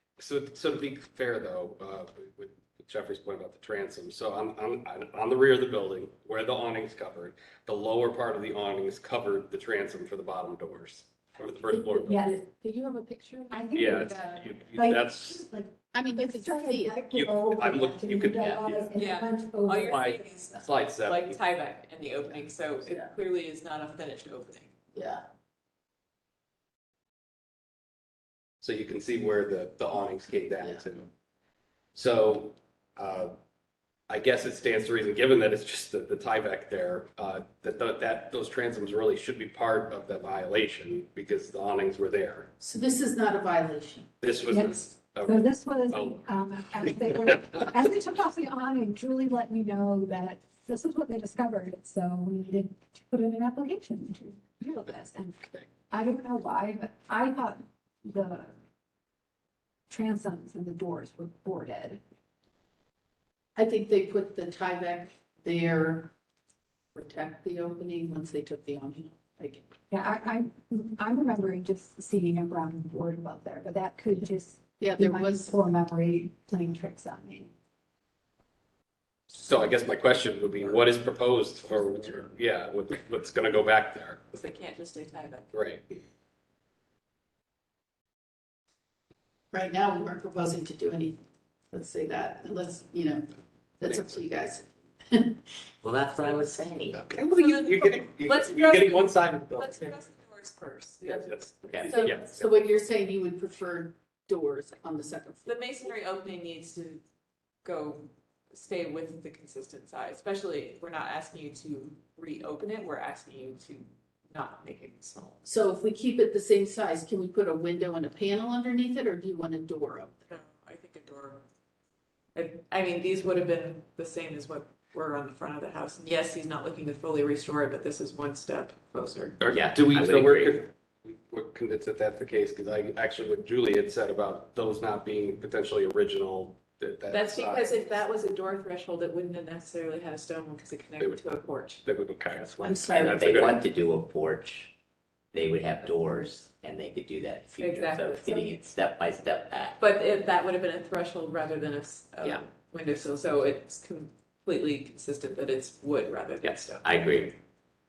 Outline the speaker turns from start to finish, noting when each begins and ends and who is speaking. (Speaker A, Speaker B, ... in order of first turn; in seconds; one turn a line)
Speaker A: 0.2-12.2
Speaker B: 11.7-14.3
Speaker C: 12.0-12.4
Speaker C: 13.5-20.4
Speaker A: 13.7-15.4
Speaker B: 15.9-17.1
Speaker A: 17.1-18.9
Speaker D: 18.9-24.7
Speaker A: 19.9-21.4
Speaker B: 22.8-23.1
Speaker B: 24.9-25.2
Speaker A: 28.6-31.1
Speaker A: 31.9-33.4
Speaker A: 34.1-42.5
Speaker B: 42.6-44.1
Speaker A: 44.2-46.2
Speaker C: 44.5-58.5
Speaker C: 59.9-62.0
Speaker B: 63.5-66.1
Speaker B: 66.9-69.7
Speaker C: 69.9-77.5
Speaker B: 74.8-75.6
Speaker A: 79.3-84.2
Speaker D: 84.3-85.5
Speaker A: 85.5-85.8
Speaker B: 89.5-91.2
Speaker B: 91.7-95.4
Speaker E: 95.8-97.0
Speaker A: 96.9-99.9
Speaker D: 97.3-102.1
Speaker A: 101.1-102.4
Speaker B: 101.8-105.9
Speaker D: 105.4-107.0
Speaker D: 107.6-115.4
Speaker B: 115.4-120.3
Speaker D: 120.3-121.4
Speaker D: 122.3-129.4
Speaker A: 129.4-137.8
Speaker E: 129.5-130.6
Speaker D: 137.1-141.8
Speaker A: 141.8-143.6
Speaker B: 142.6-143.2
Speaker E: 142.8-144.7
Speaker E: 145.3-149.8
Speaker D: 147.6-148.5
Speaker D: 149.8-156.8
Speaker E: 156.4-157.3